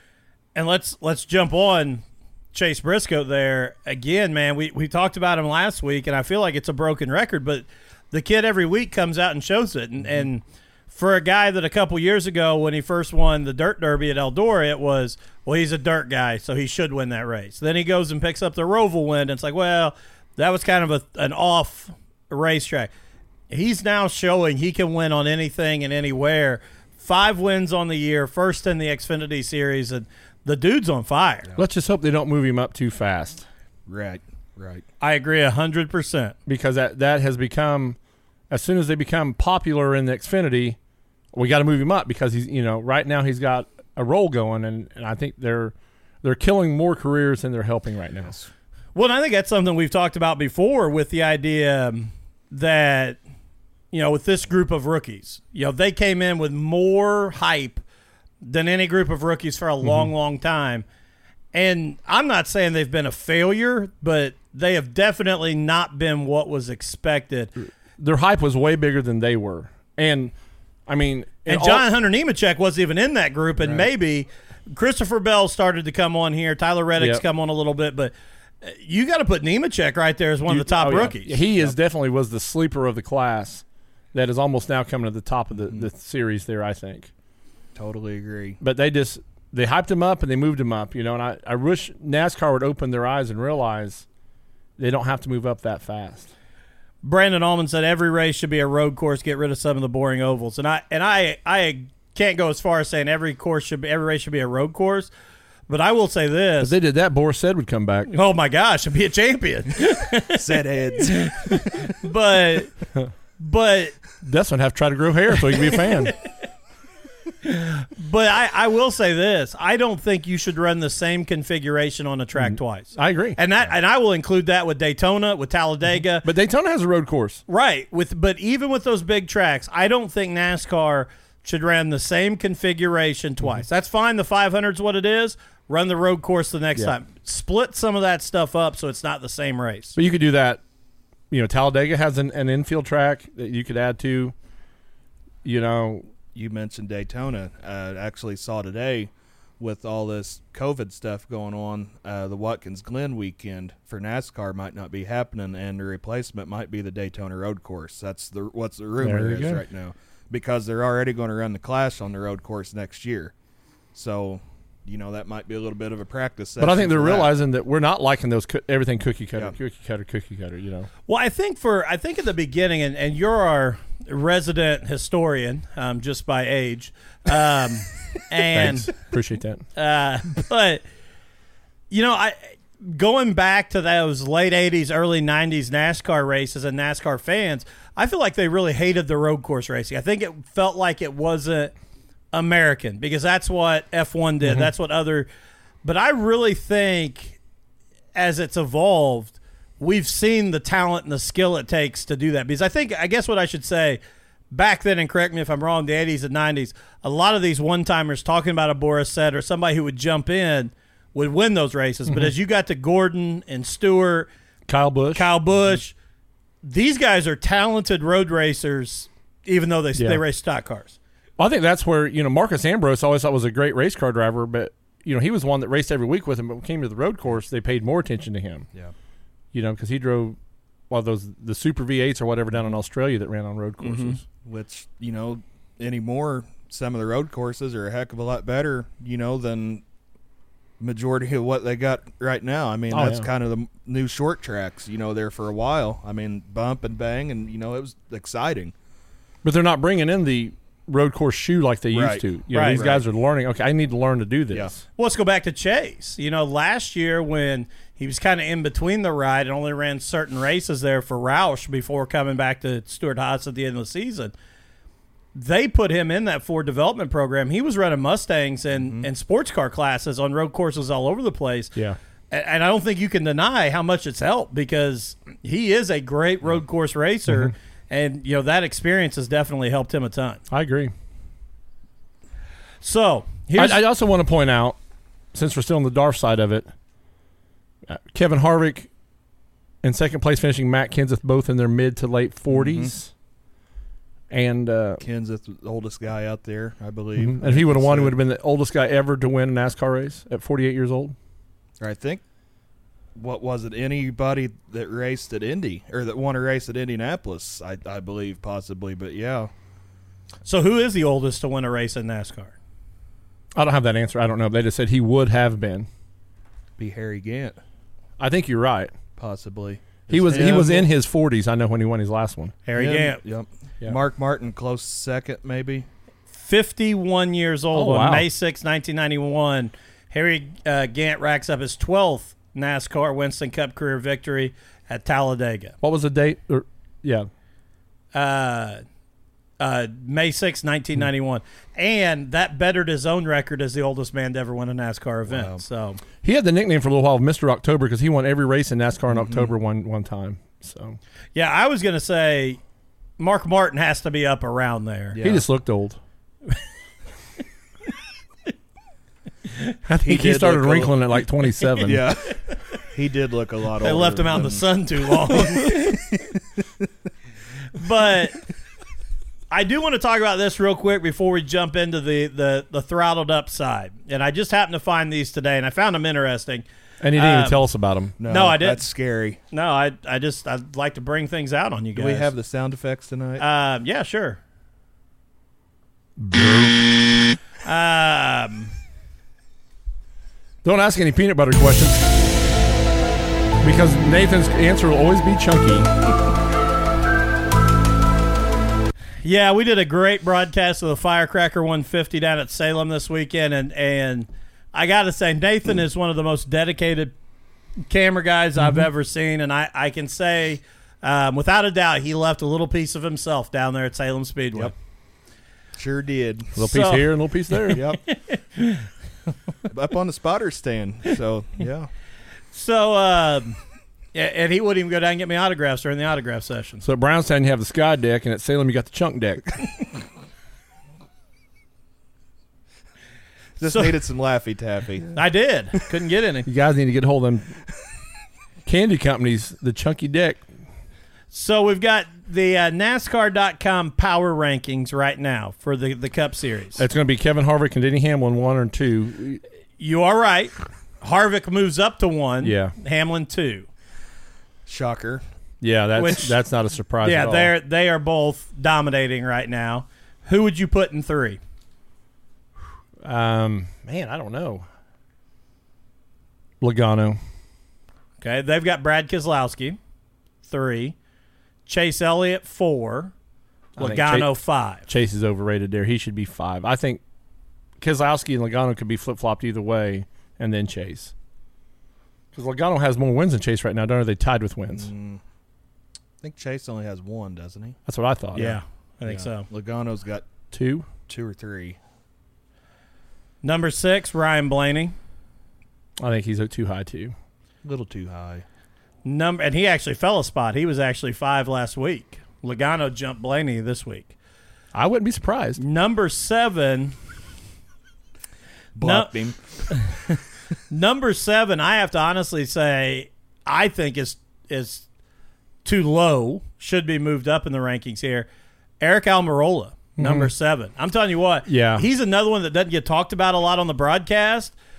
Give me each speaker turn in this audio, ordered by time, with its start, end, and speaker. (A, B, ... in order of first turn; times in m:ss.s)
0:00.6-0:22.9 A
0:23.5-0:31.5 A
0:31.6-0:33.4 B
0:33.9-0:34.8 C
0:35.0-0:36.4 A
0:36.5-0:38.0 B
0:38.5-0:40.8 B
0:41.3-0:48.4 B
0:49.0-0:53.2 A
0:53.9-0:57.8 A
0:58.4-1:00.8 A
1:01.5-1:07.5 A
1:08.0-1:10.3 B
1:10.9-1:11.9 B
1:11.5-1:21.5 A
1:13.6-1:13.9 B
1:17.0-1:17.2 B
1:20.5-1:23.6 B
1:24.1-1:27.1 B
1:27.8-1:28.6 C
1:28.6-1:34.1 B
1:34.8-1:36.3 B
1:37.0-1:45.1 A
1:45.7-1:46.8 A
1:46.6-1:48.1 B
1:48.1-1:50.4 A
1:50.4-1:51.9 C
1:51.0-1:52.7 A
1:53.4-1:54.0 A
1:54.2-1:56.2 B
1:55.7-1:56.1 A
1:57.4-2:06.3 A
2:02.4-2:03.4 B
2:06.2-2:07.4 B
2:07.5-2:20.0 A
2:20.0-2:20.6 B
2:21.3-2:24.3 B
2:25.4-2:26.1 B
2:26.3-2:43.3 C
2:39.0-2:39.6 B
2:43.9-2:47.3 C
2:46.6-2:50.9 B
2:51.1-2:59.0 A
2:58.5-2:59.6 B
2:59.8-3:00.8 A
3:01.9-3:11.7 A
3:12.3-3:15.3 A
3:14.4-3:14.7 B
3:15.8-3:17.4 A
3:18.2-3:24.0 A
3:24.5-3:34.3 A
3:34.7-3:35.3 B
3:35.1-3:36.0 A
3:36.6-3:41.0 A
3:40.0-3:40.2 B
3:41.4-3:48.7 B
3:49.5-3:50.4 B
3:50.9-3:54.2 B
3:53.8-3:59.8 C
4:00.8-4:08.7 C
4:02.9-4:03.3 B
4:09.4-4:14.8 B
4:11.9-4:13.0 C
4:12.5-4:12.8 A
4:15.0-4:24.3 A
4:25.4-4:31.8 A
4:28.7-4:29.1 C
4:32.3-4:40.4 A
4:40.5-4:40.9 B
4:42.8-4:43.8 A
4:43.6-4:44.8 B
4:45.3-4:46.7 B
4:47.9-4:48.9 B
4:49.8-4:53.1 B
4:52.5-4:52.9 C
4:54.3-4:55.0 B
4:55.0-4:58.2 C
4:57.2-5:01.2 B
5:01.8-5:02.2 C
5:03.2-5:09.5 C
5:10.4-5:12.6 A
5:13.6-5:15.9 B
5:16.8-5:17.6 C
5:18.2-5:18.9 B
5:19.2-5:20.9 C
5:20.1-5:22.6 B
5:22.7-5:23.2 A
5:22.8-5:25.9 C
5:26.4-5:35.8 A
5:27.7-5:28.3 B
5:35.8-5:37.3 B
5:38.1-5:38.8 A
5:39.6-5:46.0 A
5:45.3-5:45.6 C
5:46.2-5:51.0 B
5:49.1-5:49.5 C
5:51.4-5:52.6 A
5:53.2-5:55.2 A
5:55.1-5:55.4 C
5:55.2-5:56.0 B
5:59.9-6:02.1 B
6:00.0-6:01.0 C
6:01.8-6:04.6 C
6:03.8-6:06.0 A
6:05.3-6:06.2 C
6:07.7-6:08.4 A
6:09.5-6:17.6 A
6:17.0-6:18.2 B
6:18.2-6:19.4 C
6:18.2-6:18.8 A
6:19.5-6:22.3 A
6:22.0-6:23.4 C
6:23.4-6:24.4 A
6:26.2-6:27.0 B
6:27.6-6:28.7 A
6:30.6-6:32.1 B
6:33.6-6:35.9 B
6:39.2-6:47.2 A
6:47.9-6:54.7 A
6:48.6-6:48.9 B
6:55.8-6:56.6 C
6:56.6-6:57.8 B
6:56.6-6:58.9 A
6:57.7-6:58.0 C
6:59.7-7:01.9 C
7:02.5-7:03.6 A
7:04.1-7:06.8 A
7:06.8-7:09.6 B
7:13.6-7:15.2 C
7:13.7-7:13.9 A
7:15.1-7:16.5 A
7:16.5-7:17.6 B
7:18.6-7:20.4 B
7:21.3-7:26.8 A
7:26.8-7:29.4 B
7:29.8-7:33.7 A
7:32.4-7:32.7 B
7:34.7-7:35.2 C
7:35.6-7:37.5 B
7:36.0-7:36.4 A
7:37.0-7:41.4 A
7:43.0-7:44.7 B
7:46.6-7:47.2 B
7:48.2-7:49.8 A
7:50.4-7:51.0 A
7:51.7-7:53.1 A
7:53.8-7:54.8 A
7:53.8-7:57.0 B
7:57.8-8:01.1 B
8:02.3-8:04.9 B
8:04.7-8:05.2 C
8:06.2-8:07.8 C
8:07.9-8:08.6 B
8:08.4-8:10.3 C
8:08.4-8:09.5 A
8:10.5-8:10.9 B
8:11.1-8:11.8 C
8:13.4-8:15.0 A
8:16.0-8:17.1 B
8:17.6-8:18.4 C
8:19.0-8:24.1 A
8:24.7-8:25.6 B
8:25.6-8:26.9 A
8:28.8-8:29.4 C
8:28.8-8:29.1 A
8:29.7-8:30.1 A
8:30.7-8:34.8 A
8:35.6-8:38.3 A
8:38.8-8:44.6 A
8:40.0-8:40.3 B
8:41.5-8:41.8 B